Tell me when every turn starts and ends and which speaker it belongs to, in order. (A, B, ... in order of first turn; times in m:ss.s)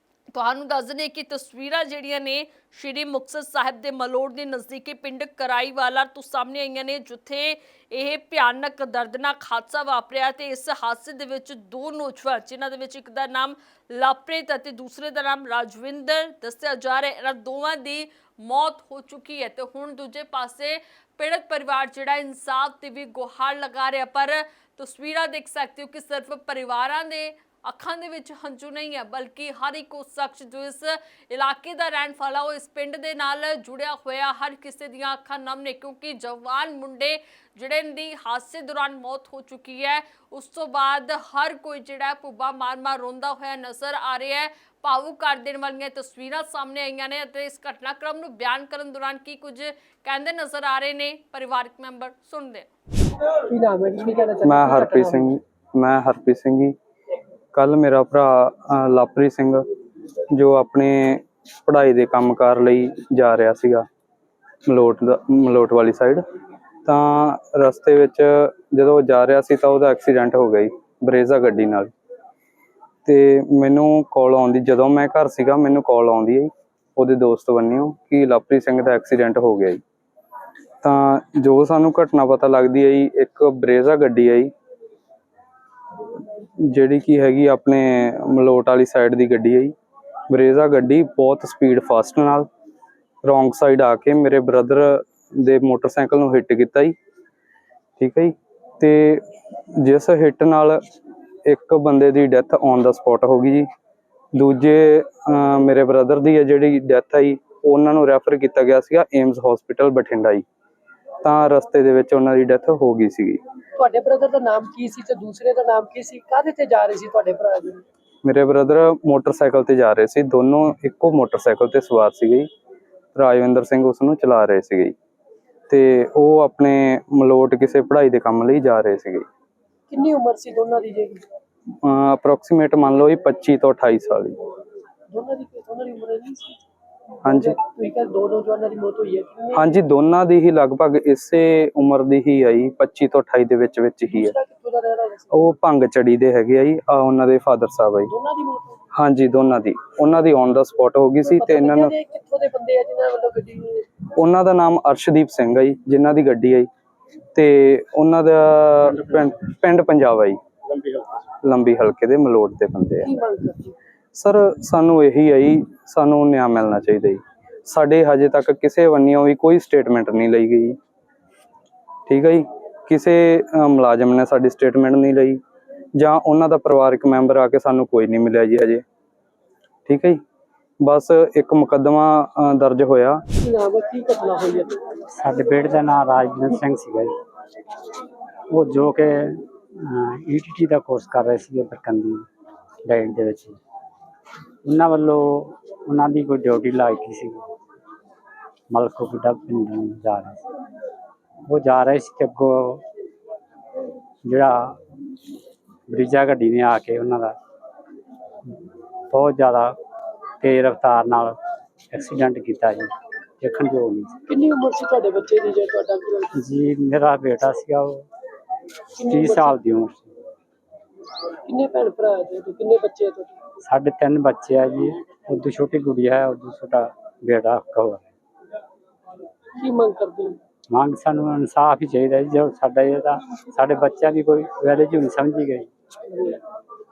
0:00.3-0:52.7 A
0:53.5-0:55.2 B
0:54.4-0:56.8 C
0:57.5-0:59.6 C
1:00.3-1:03.9 C
1:04.7-1:06.2 C
1:06.9-1:11.9 C
1:13.0-1:19.8 C
1:20.8-1:24.5 C
1:26.6-1:29.7 C
1:30.3-1:32.5 C
1:33.2-1:36.9 C
1:38.0-1:39.2 C
1:39.8-1:40.8 C
1:41.4-1:43.7 C
1:44.3-1:50.4 C
1:51.2-1:53.4 C
1:53.8-1:57.8 B
1:58.2-2:02.5 C
2:03.2-2:04.9 C
2:05.7-2:09.2 C
2:09.9-2:11.2 B
2:11.8-2:14.4 C
2:15.1-2:16.6 B
2:17.2-2:17.6 C
2:17.3-2:19.7 B
2:19.5-2:24.4 C
2:24.1-2:25.4 B
2:25.3-2:28.1 C
2:28.1-2:28.8 B
2:28.9-2:31.9 C
2:31.2-2:33.9 B
2:34.2-2:36.7 C
2:37.4-2:40.4 C
2:41.4-2:43.1 C
2:43.0-2:43.8 B
2:44.1-2:50.8 C
2:52.1-2:55.4 C
2:56.0-2:58.8 C
2:59.9-3:00.2 C
3:00.8-3:03.2 C
3:03.4-3:04.8 B
3:05.2-3:07.1 D
3:08.5-3:12.2 D
3:12.8-3:13.6 D
3:14.6-3:17.4 D
3:18.7-3:20.4 D
3:21.5-3:22.8 D
3:24.2-3:24.8 D
3:25.9-3:27.4 D
3:29.1-3:29.8 D
3:30.4-3:31.4 D
3:31.9-3:34.2 D
3:34.3-3:36.4 B
3:36.4-3:38.1 D
3:39.0-3:39.6 B
3:39.0-3:40.1 D
3:41.4-3:43.4 B
3:43.7-3:48.0 D
3:49.6-3:50.4 B
3:50.7-3:55.7 D